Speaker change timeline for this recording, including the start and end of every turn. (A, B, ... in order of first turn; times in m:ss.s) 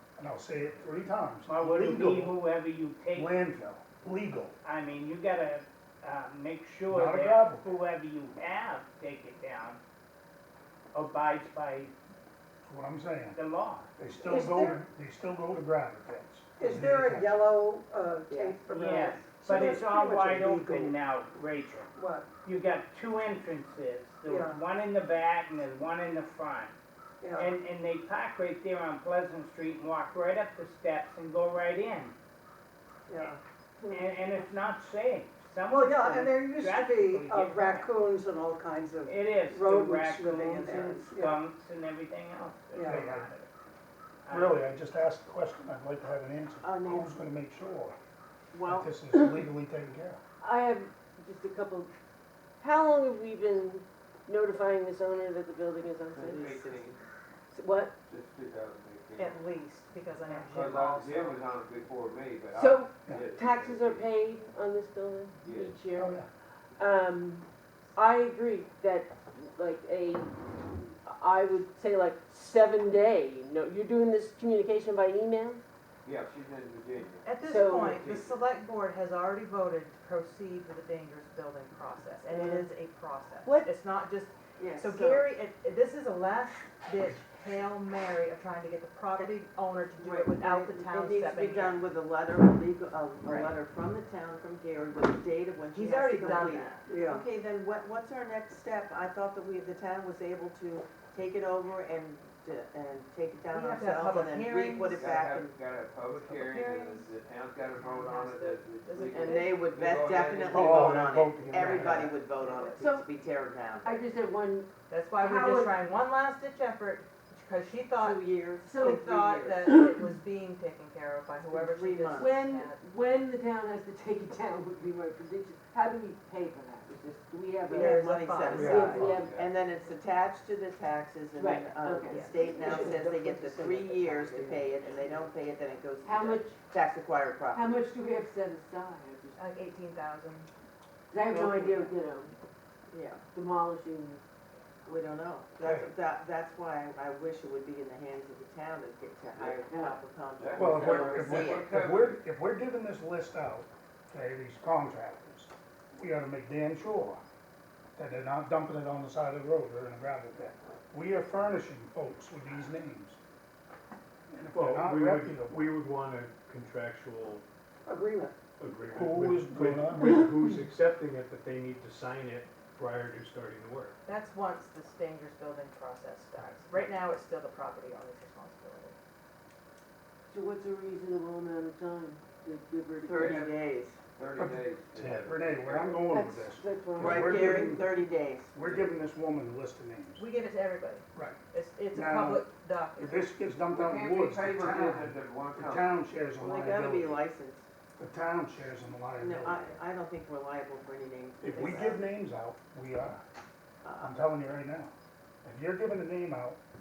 0:00.2-0:02.4 A
0:01.5-0:03.3 B
0:03.1-0:04.5 A
0:04.6-0:09.8 B
0:06.9-0:07.7 A
0:10.9-0:11.9 B
0:12.6-0:13.4 A
0:13.4-0:13.9 B
0:14.0-0:17.4 A
0:14.2-0:14.8 C
0:16.6-0:20.9 C
0:18.3-0:18.7 D
0:18.7-0:21.9 B
0:22.0-0:22.3 C
0:22.4-0:26.7 B
0:24.3-0:24.6 C
0:27.2-0:27.5 C
0:27.3-0:32.1 B
0:33.1-0:33.4 C
0:33.9-0:37.9 B
0:35.7-0:41.4 C
0:39.0-0:43.5 B
0:42.7-0:43.0 C
0:42.8-0:43.3 A
0:44.3-0:44.6 B
0:44.3-0:48.0 A
0:46.6-0:47.2 D
0:48.5-0:48.9 D
0:48.6-0:50.2 A
0:50.4-0:51.9 E
0:52.6-0:56.8 E
0:56.1-0:57.0 F
0:57.5-0:58.0 E
0:58.1-0:59.4 F
0:59.2-1:01.4 G
1:00.5-1:04.1 F
1:02.5-1:06.2 E
1:05.4-1:05.8 F
1:06.0-1:06.3 A
1:06.8-1:15.6 E
1:16.0-1:17.3 F
1:17.2-1:31.8 G
1:17.4-1:18.0 E
1:17.9-1:18.4 F
1:22.3-1:22.7 E
1:24.6-1:25.3 D
1:30.0-1:45.5 D
1:35.8-1:36.9 G
1:36.9-1:37.2 C
1:43.5-1:45.0 G
1:45.0-1:50.7 F
1:46.2-1:47.1 G
1:47.7-1:49.6 G
1:49.1-1:54.0 D
1:50.5-1:52.2 A
1:52.4-1:52.8 G
1:52.8-1:53.1 E
1:53.8-1:55.8 E
1:54.9-1:58.2 G
1:58.0-1:59.7 D
1:58.6-1:59.0 E
1:58.8-2:02.8 G
1:59.7-2:00.0 E
2:01.4-2:02.4 D
2:02.1-2:07.9 E
2:07.6-2:09.0 G
2:07.7-2:17.6 D
2:08.6-2:09.1 A
2:08.7-2:09.4 E
2:09.0-2:09.2 H
2:09.2-2:09.6 F
2:11.3-2:12.2 E
2:12.2-2:15.3 C
2:16.0-2:16.6 E
2:17.5-2:19.5 E
2:19.4-2:20.5 G
2:21.1-2:22.4 E
2:21.3-2:22.0 D
2:22.9-2:23.2 D
2:23.3-2:24.2 E
2:24.8-2:31.7 D
2:25.6-2:25.9 A
2:29.6-2:30.0 E
2:30.4-2:32.2 F
2:30.6-2:37.2 A
2:38.0-2:43.2 A
2:44.3-2:45.6 A
2:44.5-2:47.4 H
2:47.9-2:48.3 C
2:48.6-2:54.0 H
2:48.9-2:50.2 A
2:54.0-2:59.0 G
3:00.3-3:03.5 E
3:03.0-3:04.0 D
3:04.2-3:06.0 F
3:04.4-3:07.9 A
3:04.9-3:05.4 H
3:06.0-3:07.8 E
3:07.0-3:08.5 D
3:08.5-3:10.3 A
3:08.6-3:08.9 F
3:10.2-3:13.2 G
3:11.9-3:12.4 A
3:13.0-3:17.2 A
3:13.7-3:15.9 F
3:16.4-3:17.6 D
3:18.0-3:19.8 A
3:19.2-3:22.0 D
3:21.4-3:23.2 A
3:21.6-3:21.9 G
3:23.8-3:24.2 D
3:24.0-3:24.9 A
3:25.4-3:26.6 A